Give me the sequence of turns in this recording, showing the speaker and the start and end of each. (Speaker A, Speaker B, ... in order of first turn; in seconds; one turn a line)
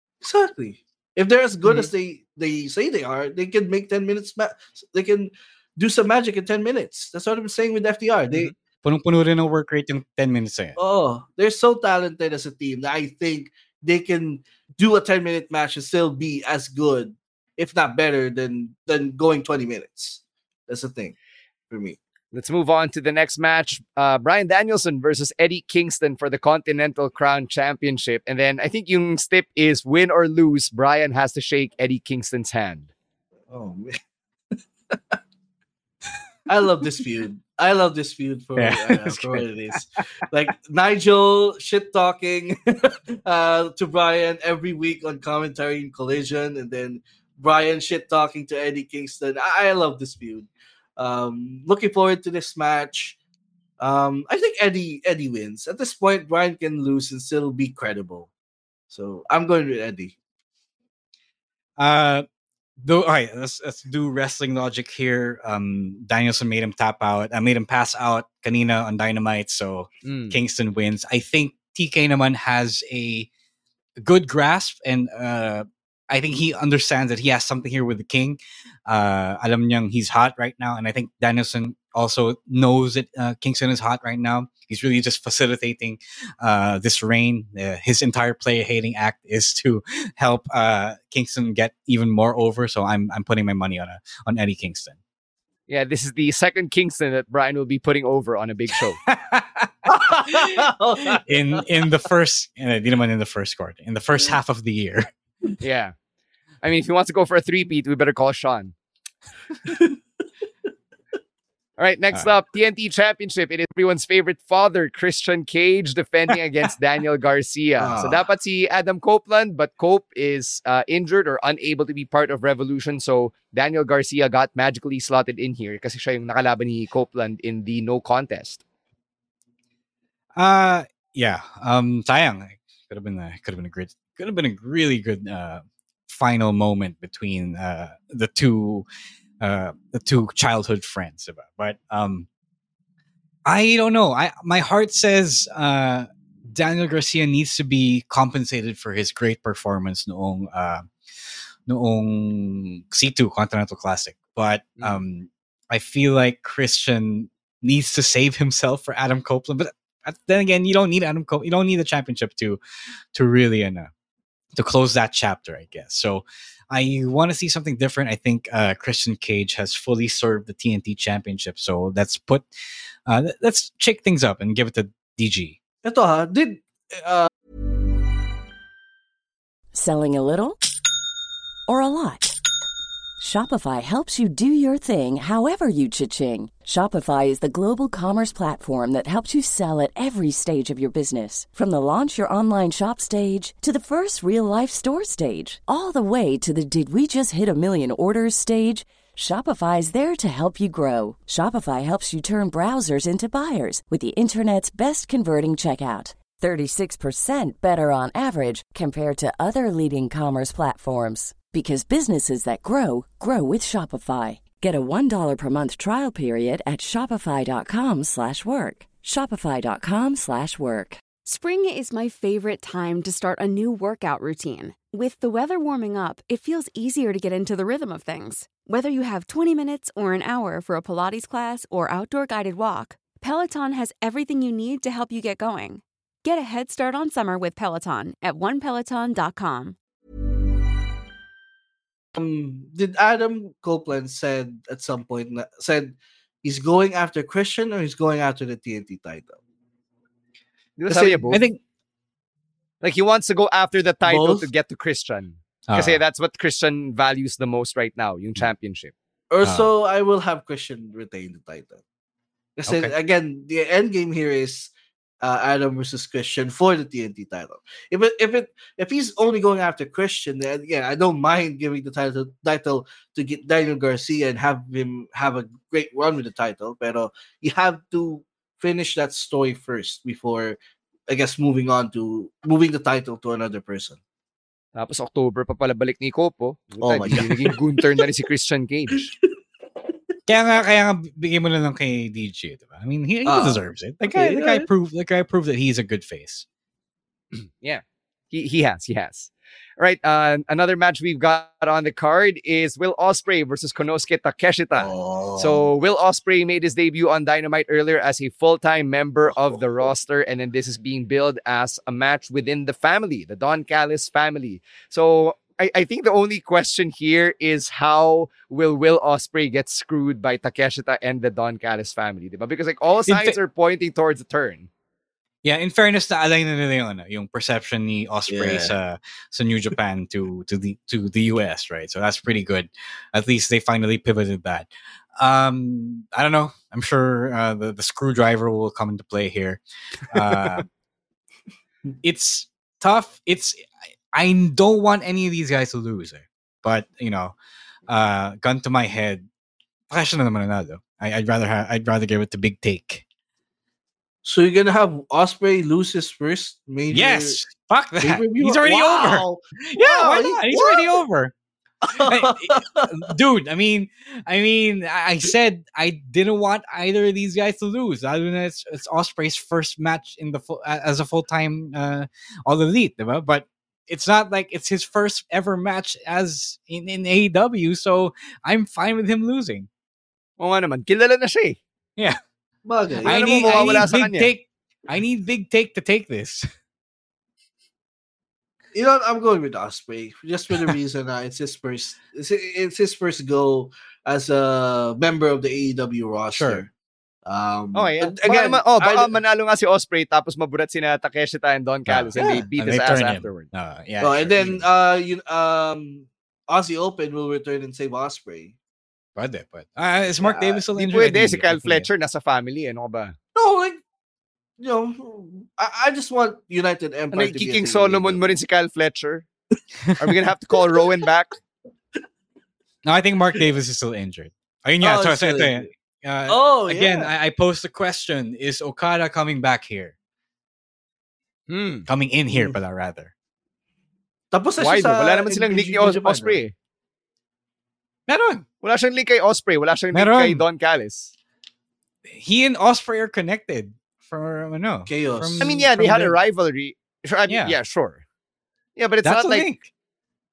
Speaker A: 0.2-8.5
Speaker B: 8.8-10.8
Speaker A: 10.8-21.1
Speaker A: 21.7-22.0
Speaker C: 22.3-32.9
Speaker A: 33.5-34.0
Speaker A: 36.5-53.2
Speaker B: 38.6-39.8
Speaker A: 53.8-58.3
Speaker A: 58.9-60.1
Speaker B: 61.8-62.2
Speaker B: 62.8-73.3
Speaker C: 70.0-70.4
Speaker B: 74.0-95.0
Speaker C: 95.7-99.0
Speaker B: 99.0-105.1
Speaker A: 99.9-101.2
Speaker C: 105.6-105.9
Speaker C: 106.6-108.7
Speaker A: 109.7-109.9
Speaker C: 111.8-128.6
Speaker A: 117.8-118.2
Speaker B: 130.3-138.9
Speaker B: 139.4-142.3
Speaker B: 143.4-150.9
Speaker B: 151.7-162.6
Speaker B: 163.1-163.9
Speaker B: 164.6-172.5
Speaker B: 173.1-175.6
Speaker A: 175.8-177.3
Speaker D: 179.7-180.6
Speaker D: 181.7-182.3
Speaker D: 183.2-221.0
Speaker E: 221.2-239.8
Speaker A: 242.1-249.4
Speaker C: 250.8-251.4
Speaker A: 250.9-251.3
Speaker B: 251.3-251.6
Speaker C: 252.8-258.9
Speaker A: 254.0-254.5
Speaker B: 255.7-256.0
Speaker A: 259.3-261.8
Speaker B: 259.4-259.7
Speaker A: 262.6-264.7
Speaker B: 262.7-262.9
Speaker A: 265.2-280.6
Speaker A: 281.1-284.0
Speaker C: 284.7-289.1
Speaker A: 286.8-287.6
Speaker B: 290.3-296.4
Speaker A: 293.2-294.7
Speaker C: 297.4-324.7
Speaker A: 304.8-305.5
Speaker B: 323.1-323.4
Speaker B: 325.4-340.6
Speaker A: 328.3-328.7
Speaker C: 340.3-340.6
Speaker B: 342.0-347.4
Speaker B: 347.9-349.3
Speaker B: 349.9-353.0
Speaker A: 354.2-357.4
Speaker B: 356.9-361.3
Speaker A: 358.0-360.9
Speaker A: 361.9-362.9
Speaker B: 361.9-379.7
Speaker C: 380.4-381.6
Speaker A: 382.6-383.9
Speaker B: 383.0-386.5
Speaker C: 383.1-384.3
Speaker A: 388.7-396.7
Speaker B: 396.3-396.6
Speaker A: 397.2-399.1
Speaker C: 397.7-403.5
Speaker B: 401.9-404.6
Speaker A: 402.2-402.4
Speaker A: 404.0-408.5
Speaker B: 409.1-411.9
Speaker A: 410.2-410.6
Speaker C: 410.7-413.2
Speaker A: 413.4-413.8
Speaker A: 414.6-418.2
Speaker C: 417.1-419.2
Speaker C: 420.0-421.3
Speaker B: 422.8-429.9
Speaker A: 424.8-425.7
Speaker A: 426.3-427.1
Speaker C: 431.5-431.9
Speaker B: 431.9-433.1
Speaker A: 434.3-436.4
Speaker C: 434.6-436.5
Speaker B: 438.1-438.4
Speaker C: 438.6-441.1
Speaker B: 439.9-440.4
Speaker B: 442.1-445.6
Speaker A: 444.9-446.1
Speaker C: 445.4-448.0
Speaker B: 447.3-447.6
Speaker C: 448.8-449.5
Speaker B: 449.0-449.7